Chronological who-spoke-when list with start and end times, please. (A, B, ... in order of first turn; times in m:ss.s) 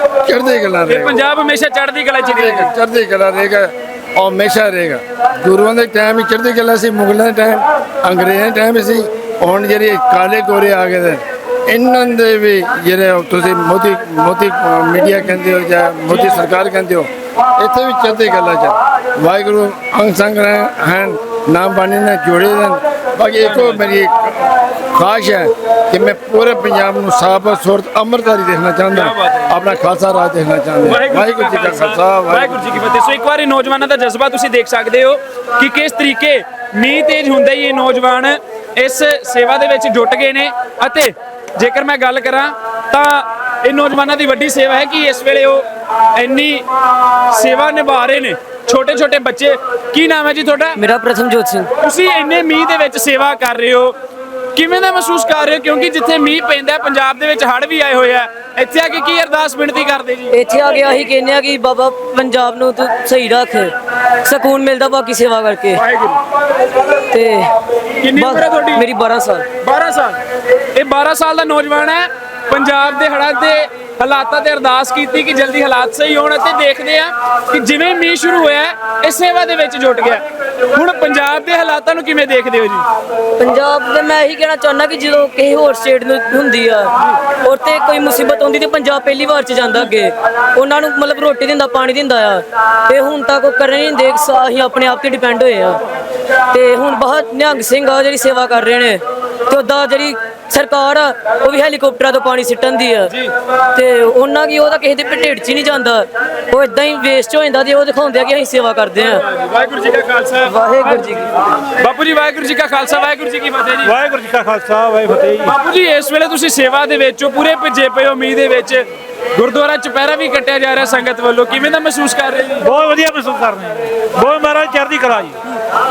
0:00.2-0:01.2 A
0:00.9-0:02.7 B
0:02.3-0:32.8 A
0:23.4-0:23.8 B
0:28.9-0:29.5 B
0:30.8-0:46.6 B
0:47.3-0:50.8 B
0:50.8-0:51.7 C
0:51.8-0:53.9 B
0:54.5-1:00.3 B
1:00.3-1:05.8 C
1:05.7-1:06.2 B
1:07.1-1:07.5 C
1:08.0-1:08.8 B
1:08.1-1:09.5 C
1:09.6-1:10.2 B
1:10.7-1:20.2 B
1:20.7-1:22.8 B
1:23.4-1:35.8 C
1:36.5-1:43.1 C
1:43.7-1:49.2 C
1:49.2-1:50.5 B
1:50.4-1:51.3 C
1:51.8-1:53.9 B
1:53.8-1:55.5 D
1:55.4-2:02.7 B
2:02.6-2:05.4 D